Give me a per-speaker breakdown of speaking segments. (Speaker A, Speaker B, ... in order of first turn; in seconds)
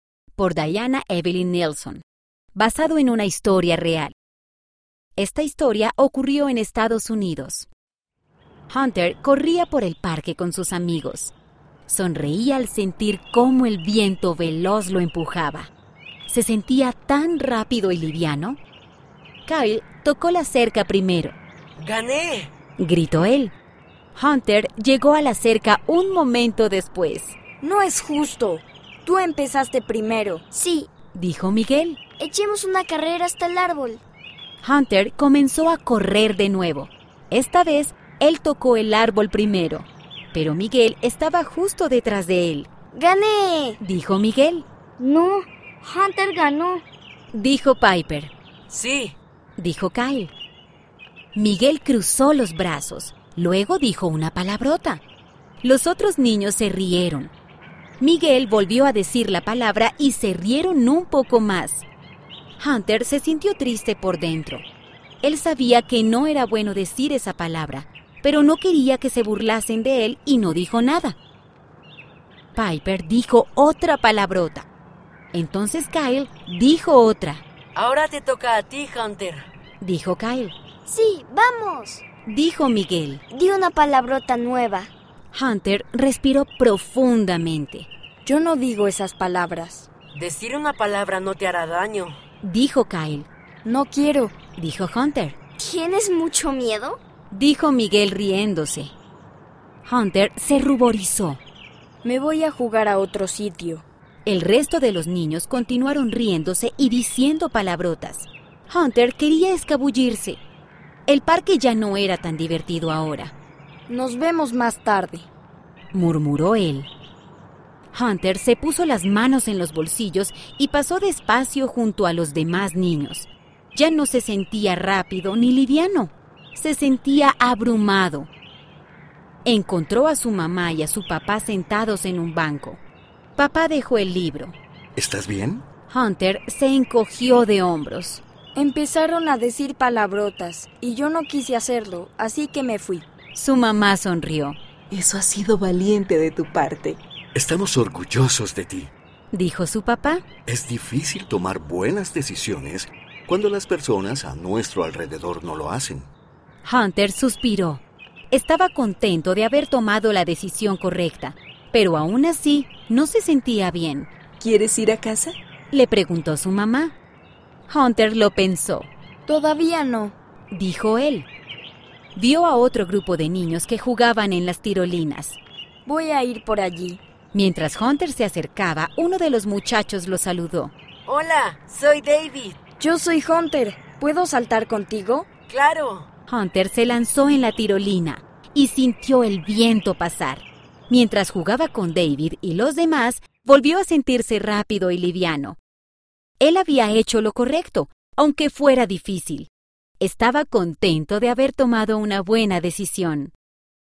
Speaker A: 0.3-2.0, 2.5-4.1, 5.2-7.7, 8.7-11.3, 11.8-15.7, 16.3-18.6, 19.4-21.4, 22.8-23.5, 24.1-27.4, 31.1-32.0, 34.6-42.7, 43.8-44.7, 47.3-48.3, 49.6-50.3, 51.3-55.0, 55.6-57.3, 58.0-61.9, 62.6-64.6, 65.2-71.2, 72.5-74.7, 75.3-77.4, 79.8-80.5, 82.3-83.2, 85.3-87.9, 92.4-93.3, 94.6-95.3, 97.3-98.9, 99.8-101.4, 104.2-110.4, 111.1-113.3, 115.9-116.9, 117.9-128.3, 129.4-132.8, 133.3-134.6, 135.9-138.2, 143.3-144.6, 149.3-150.2, 156.6-164.1, 165.7-166.9, 167.7-168.9, 170.5-171.3, 172.1-175.4, 177.3-180.7, 186.3-195.6, 196.4-203.3
Speaker B: 21.8-22.5, 48.7-49.1, 77.8-79.5, 90.1-92.2, 181.1-182.5, 185.5-186.1
Speaker C: 27.6-30.4, 88.2-89.9, 93.6-94.3, 102.0-103.8, 113.9-115.3, 138.5-143.1, 169.3-170.1, 175.8-177.0, 182.8-185.2
Speaker D: 30.5-30.9, 32.2-34.0, 42.9-43.8, 45.0-46.8, 80.9-82.0, 83.3-84.9, 95.6-97.0
Speaker E: 134.9-135.6, 147.3-148.9, 150.5-156.1
Speaker F: 144.9-147.0, 164.4-165.3